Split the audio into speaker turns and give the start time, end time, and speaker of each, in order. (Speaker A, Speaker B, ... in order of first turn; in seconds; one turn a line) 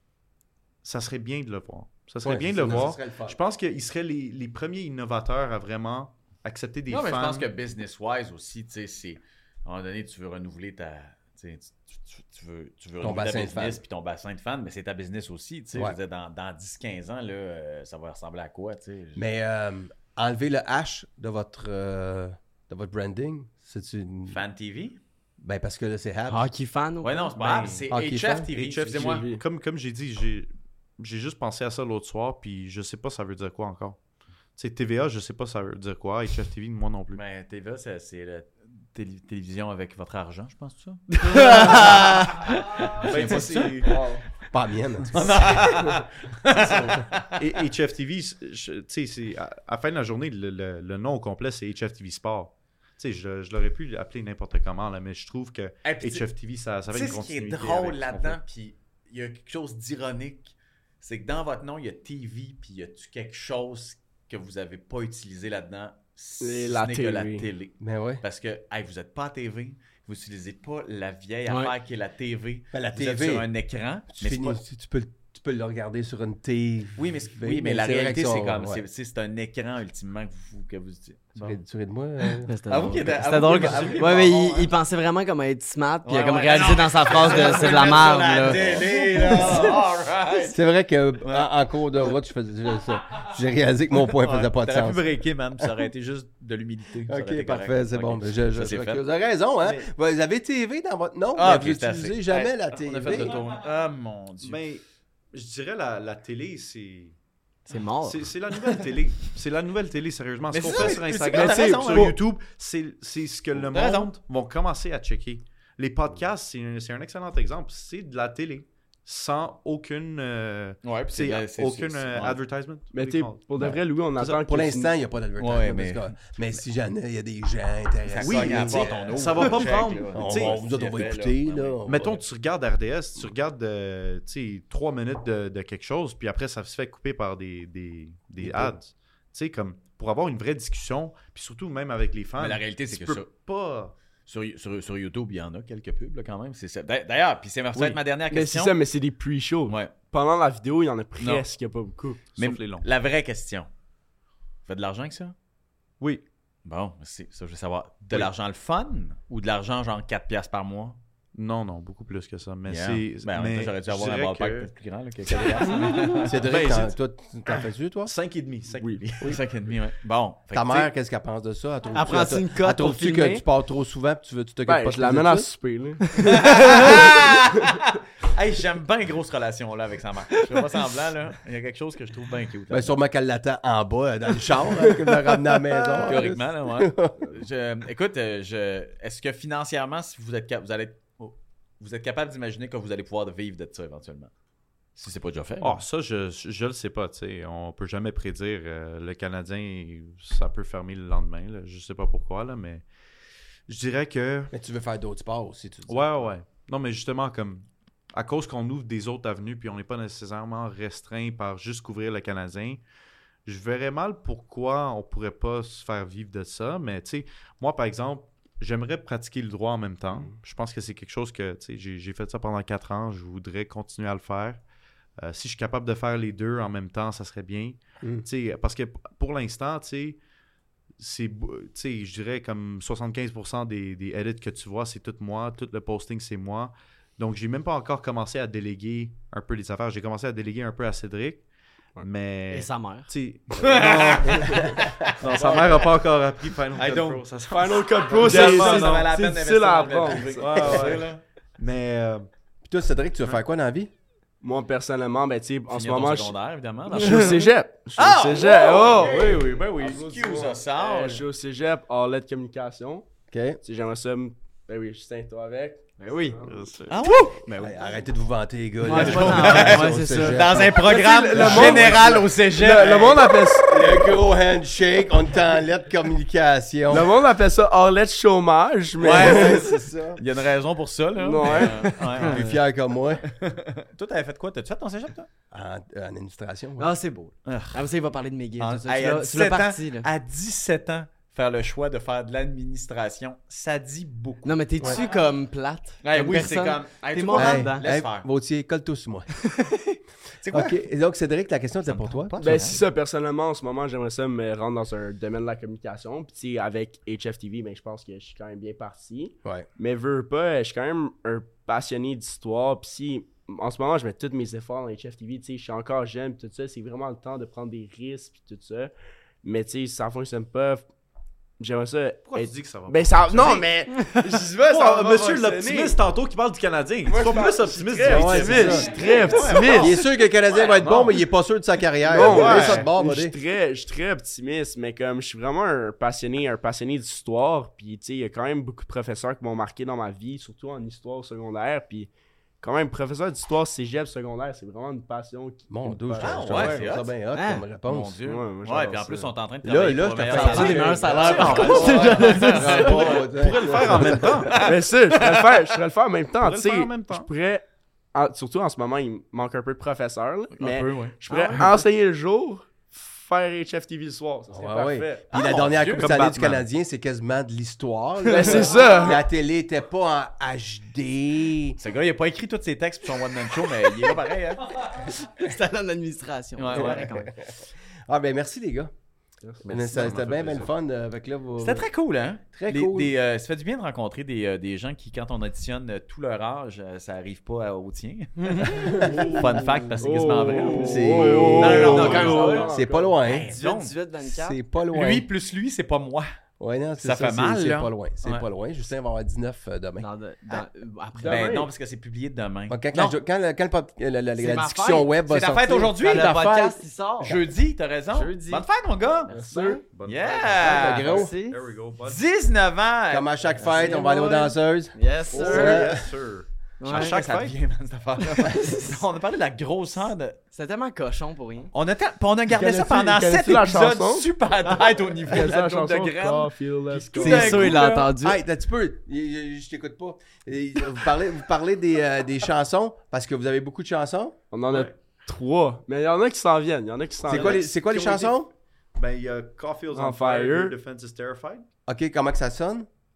Speaker A: 0.8-7.5
Speaker B: 2.2-3.4
Speaker C: 6.9-19.2
Speaker B: 13.0-13.8
Speaker B: 19.1-24.4
Speaker C: 24.3-25.0
Speaker B: 25.4-26.4
Speaker D: 26.3-27.3
Speaker C: 27.0-29.3
Speaker A: 27.3-27.9
Speaker B: 27.9-28.5
Speaker A: 28.5-34.0
Speaker E: 28.8-29.4
Speaker A: 34.5-37.2
Speaker C: 37.1-44.1
Speaker A: 41.3-44.0
Speaker E: 43.9-44.2
Speaker B: 44.5-45.6
Speaker C: 45.1-47.5
Speaker E: 46.6-47.0
Speaker A: 47.4-58.4
Speaker C: 55.8-56.3
Speaker C: 56.9-74.6
Speaker E: 66.4-67.5
Speaker B: 67.8-68.2
Speaker D: 71.5-71.7
Speaker B: 72.7-73.5
Speaker B: 74.1-78.8
Speaker C: 77.0-81.6
Speaker B: 81.3-82.5
Speaker D: 82.4-88.7
Speaker C: 82.7-84.7
Speaker C: 86.0-90.6
Speaker B: 88.5-89.8
Speaker B: 90.4-95.9
Speaker C: 91.2-92.2
Speaker C: 94.1-99.0
Speaker B: 97.1-103.5
Speaker C: 101.3-104.6
Speaker A: 104.4-104.8
Speaker A: 105.3-107.2
Speaker D: 107.7-108.3
Speaker A: 108.0-124.5
Speaker C: 110.5-112.2
Speaker E: 111.3-112.2
Speaker C: 113.5-114.1
Speaker C: 120.8-122.4
Speaker E: 122.9-124.9
Speaker B: 124.4-132.2
Speaker C: 125.4-126.3
Speaker C: 128.1-132.1
Speaker A: 128.2-131.0
Speaker A: 131.9-143.9
Speaker C: 142.4-143.3
Speaker C: 144.2-148.8
Speaker E: 147.8-152.3
Speaker C: 149.7-149.9
Speaker C: 151.2-151.4
Speaker A: 152.3-152.8
Speaker C: 152.3-153.7
Speaker C: 154.6-155.3
Speaker C: 156.6-161.0
Speaker A: 161.3-164.7
Speaker C: 162.6-166.4
Speaker E: 165.8-166.1
Speaker B: 166.2-168.1
Speaker A: 166.4-166.9
Speaker A: 168.0-169.4
Speaker E: 168.8-169.0
Speaker C: 169.2-170.9
Speaker B: 170.5-175.5
Speaker D: 171.9-173.4
Speaker E: 174.7-177.9
Speaker C: 176.3-182.9
Speaker B: 182.7-187.3
Speaker C: 186.0-194.3
Speaker C: 194.9-195.8
Speaker A: 195.6-202.8
Speaker A: 203.7-204.5
Speaker B: 204.5-206.3
Speaker A: 205.9-212.8
Speaker A: 213.4-224.6
Speaker A: 225.2-230.2
Speaker B: 228.0-228.2
Speaker A: 231.0-241.4
Speaker A: 242.0-249.1
Speaker D: 242.5-243.1
Speaker C: 243.6-246.0
Speaker E: 243.9-245.9
Speaker B: 244.6-244.9
Speaker C: 246.7-247.3
Speaker E: 247.5-251.0
Speaker C: 248.1-251.2
Speaker A: 250.3-252.3
Speaker B: 252.7-253.9
Speaker E: 254.4-256.4
Speaker C: 255.7-261.3
Speaker E: 256.9-263.1
Speaker B: 263.3-263.6
Speaker E: 263.6-266.6
Speaker D: 266.0-266.5
Speaker A: 266.4-267.0
Speaker C: 266.9-267.7
Speaker B: 267.6-272.3
Speaker D: 268.8-270.7
Speaker C: 268.9-273.7
Speaker E: 270.8-274.1
Speaker B: 273.6-277.1
Speaker E: 276.9-279.7
Speaker C: 279.0-282.4
Speaker B: 279.0-280.2
Speaker E: 281.2-282.1
Speaker D: 281.5-282.5
Speaker B: 282.2-283.2
Speaker C: 283.3-285.3
Speaker B: 285.5-286.9
Speaker D: 286.8-290.1
Speaker C: 287.4-287.8
Speaker C: 288.6-294.9
Speaker D: 294.4-297.9
Speaker C: 296.0-298.3
Speaker B: 297.3-299.3
Speaker D: 299.4-299.9
Speaker C: 300.4-300.8
Speaker B: 300.4-302.6
Speaker C: 301.8-302.8
Speaker E: 302.4-318.9
Speaker E: 319.4-320.9
Speaker E: 321.6-326.0
Speaker A: 322.3-323.7
Speaker A: 324.5-330.0
Speaker E: 327.0-329.9
Speaker B: 328.0-328.9
Speaker C: 328.6-330.0
Speaker D: 329.3-329.6
Speaker B: 329.6-333.4
Speaker A: 330.8-331.1
Speaker E: 332.0-346.9
Speaker A: 332.1-332.9
Speaker B: 345.7-348.1
Speaker C: 346.2-347.1
Speaker D: 347.3-347.6
Speaker C: 347.8-355.6
Speaker E: 348.2-349.3
Speaker B: 349.6-354.5
Speaker D: 350.3-353.1
Speaker A: 351.7-354.7
Speaker E: 354.5-365.2
Speaker A: 356.4-357.3
Speaker C: 360.5-361.6
Speaker D: 361.3-361.9
Speaker B: 364.5-371.8
Speaker C: 365.3-366.2
Speaker A: 365.7-366.6
Speaker E: 368.2-369.2
Speaker C: 371.8-375.1
Speaker D: 374.8-377.3
Speaker C: 376.6-377.3
Speaker B: 376.7-378.9
Speaker B: 379.6-381.9
Speaker C: 379.7-380.6
Speaker A: 379.9-380.6
Speaker C: 381.6-393.9
Speaker B: 382.5-383.1
Speaker E: 388.6-393.2
Speaker A: 390.8-392.6
Speaker B: 390.8-393.5
Speaker D: 391.2-392.8
Speaker D: 393.5-394.6
Speaker B: 394.2-395.3
Speaker C: 394.9-396.2
Speaker B: 396.6-400.1
Speaker C: 397.0-398.5
Speaker D: 400.0-401.5
Speaker E: 401.1-401.7
Speaker C: 401.2-402.8
Speaker B: 402.7-407.4
Speaker D: 404.4-405.1
Speaker C: 405.2-406.4
Speaker D: 406.0-407.4
Speaker C: 407.2-409.3
Speaker D: 408.1-408.6
Speaker D: 409.3-409.8
Speaker E: 409.3-409.8
Speaker A: 409.9-412.2
Speaker C: 410.0-411.2
Speaker B: 410.6-411.3
Speaker D: 410.8-411.6
Speaker C: 412.0-413.3
Speaker B: 413.1-416.1
Speaker D: 413.6-414.4
Speaker A: 413.6-414.5
Speaker D: 414.9-416.0
Speaker A: 415.3-417.6
Speaker D: 416.8-417.2
Speaker C: 416.8-420.4
Speaker D: 418.2-419.0
Speaker D: 420.5-421.7
Speaker C: 421.7-428.1
Speaker E: 422.5-424.3
Speaker E: 425.2-427.8
Speaker D: 427.1-428.4
Speaker B: 428.2-434.4
Speaker E: 434.5-437.6
Speaker A: 434.7-434.9
Speaker B: 437.2-438.5
Speaker A: 437.3-441.6
Speaker E: 439.9-440.7
Speaker B: 441.9-442.9